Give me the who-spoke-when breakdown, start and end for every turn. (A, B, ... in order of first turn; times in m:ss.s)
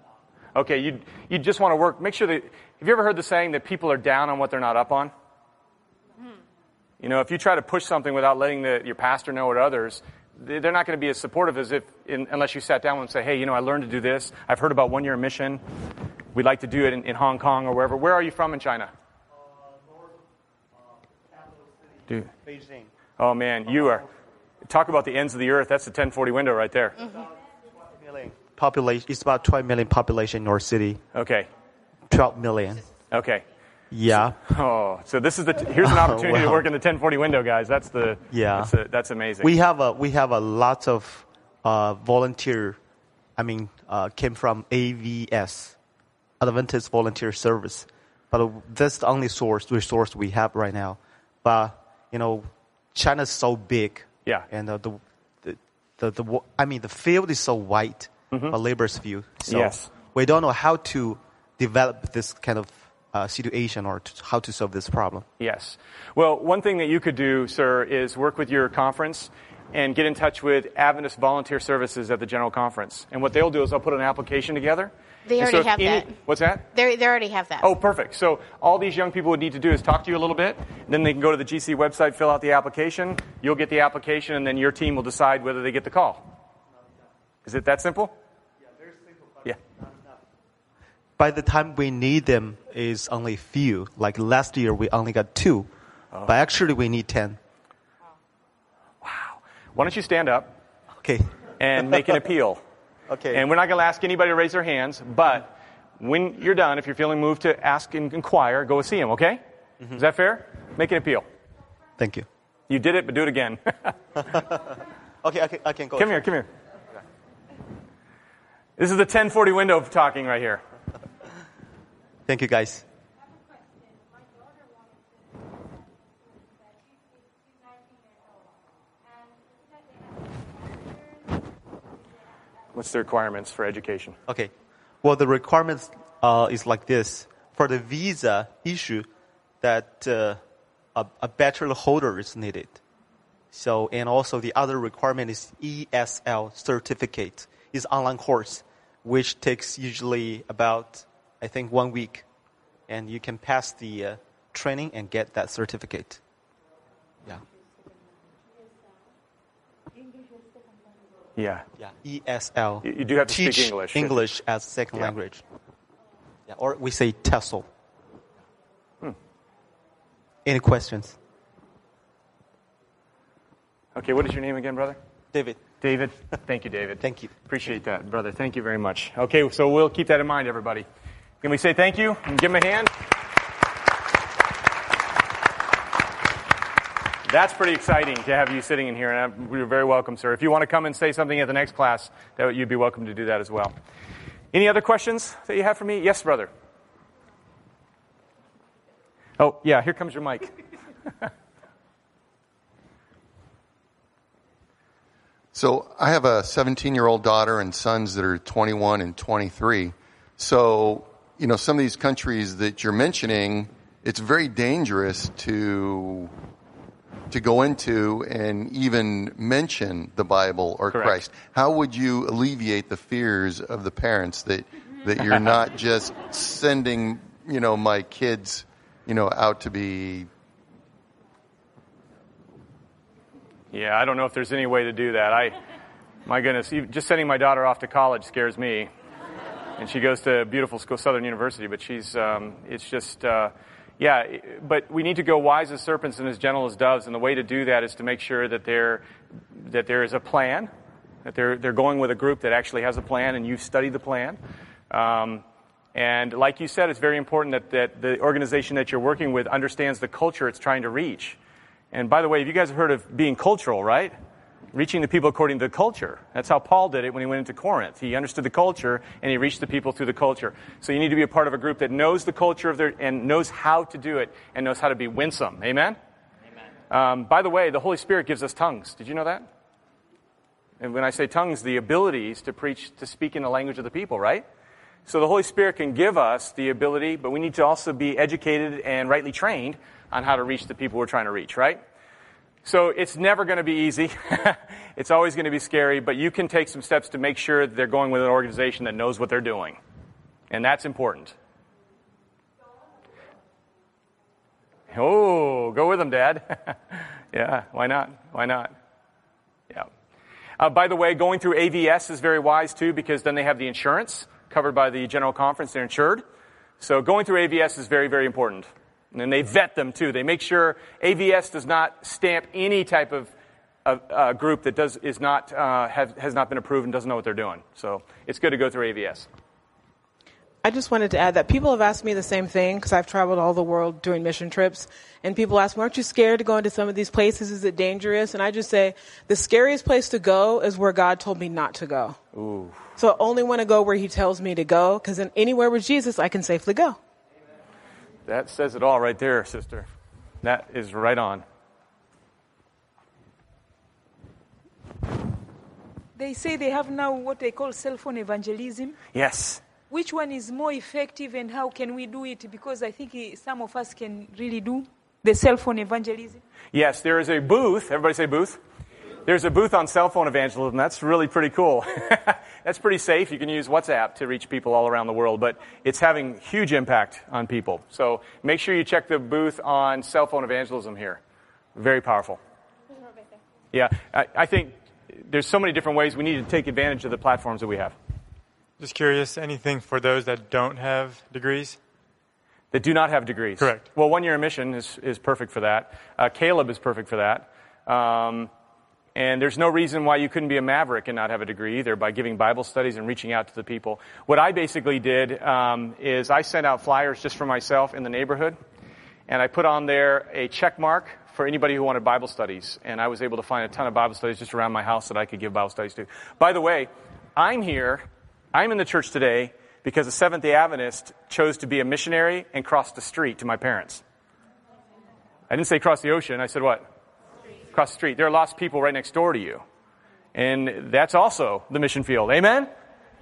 0:00.6-0:05.1 A
0:07.0-0:15.6 A
0:16.4-0:18.9 A
0:21.3-0:21.7 B
0:22.4-0:22.9 B
0:23.2-0:24.0 A
0:24.6-0:27.0 A
0:27.9-0:31.0 B
0:31.1-0:31.5 A
0:32.1-0:32.9 B
0:33.1-0:33.4 A
0:33.9-0:34.4 B
0:34.1-0:39.5 A
0:35.8-0:36.6 B
0:38.3-0:38.7 B
0:39.4-0:42.8 B
0:43.4-0:45.8 B
0:46.4-1:05.3 B
0:58.3-0:58.6 A
0:59.5-0:59.9 A
1:05.4-1:16.7 A
1:15.3-1:16.2 C
1:16.7-1:17.7 C
1:17.6-1:26.3 A
1:27.4-1:28.2 A
1:31.2-1:35.7 B
1:36.2-1:37.4 B
1:39.0-1:40.6 A
1:41.0-1:41.3 B
1:41.6-1:42.6 A
1:43.1-1:43.4 B
1:43.3-1:49.4 A
1:49.9-1:51.3 A
1:52.0-1:52.3 B
1:52.7-1:53.9 A
1:55.2-1:56.2 B
1:56.0-1:56.5 A
1:58.8-2:00.6 A
2:02.3-2:02.8 B
2:12.7-2:14.2 A
2:14.3-2:14.5 B
2:15.0-2:19.1 B
2:19.6-2:20.4 B
2:21.0-2:22.8 B
2:23.5-2:32.2 B
2:32.9-2:36.2 B
2:41.4-2:41.6 A
2:41.8-2:45.4 B
2:42.8-2:44.2 A
2:46.5-2:47.7 B
2:50.4-2:51.2 B
2:54.0-2:55.0 A
2:55.3-2:55.6 B
2:55.8-3:00.9 A
2:57.0-2:57.3 B
3:01.4-3:02.9 A
3:07.3-3:13.8 A
3:14.5-3:16.5 A
3:19.4-3:20.5 A
3:25.5-3:36.3 D
3:37.3-3:50.3 D
3:40.9-3:41.2 A
3:53.7-3:55.6 A
3:56.3-3:58.9 A
3:59.8-4:10.7 A
4:11.2-4:14.4 A
4:14.9-4:21.4 A
4:21.9-4:24.2 A
4:24.7-4:36.0 A
4:36.9-4:39.5 A
4:40.8-4:44.4 A
4:45.1-4:51.8 A
4:52.6-4:59.8 A
5:00.5-5:01.4 A
5:04.9-5:08.7 A
5:10.6-5:16.2 A
5:16.8-5:23.3 A
5:23.8-5:29.3 A
5:30.6-5:42.2 E
5:42.4-5:42.8 A
5:43.0-5:47.0 E
5:48.3-5:49.9 A
5:50.4-5:51.4 A
5:56.2-5:59.0 F
5:59.1-5:59.6 A
5:59.9-6:06.4 F
6:06.7-6:08.6 A
6:09.3-6:21.2 A
6:21.8-6:22.4 A
6:23.7-6:28.0 A
6:28.8-6:31.8 G
6:32.7-6:38.5 A
6:33.6-6:33.9 G
6:39.2-6:48.6 A
6:49.3-7:04.0 A
7:05.5-7:06.8 A
7:07.7-7:09.6 A
7:10.4-7:12.7 A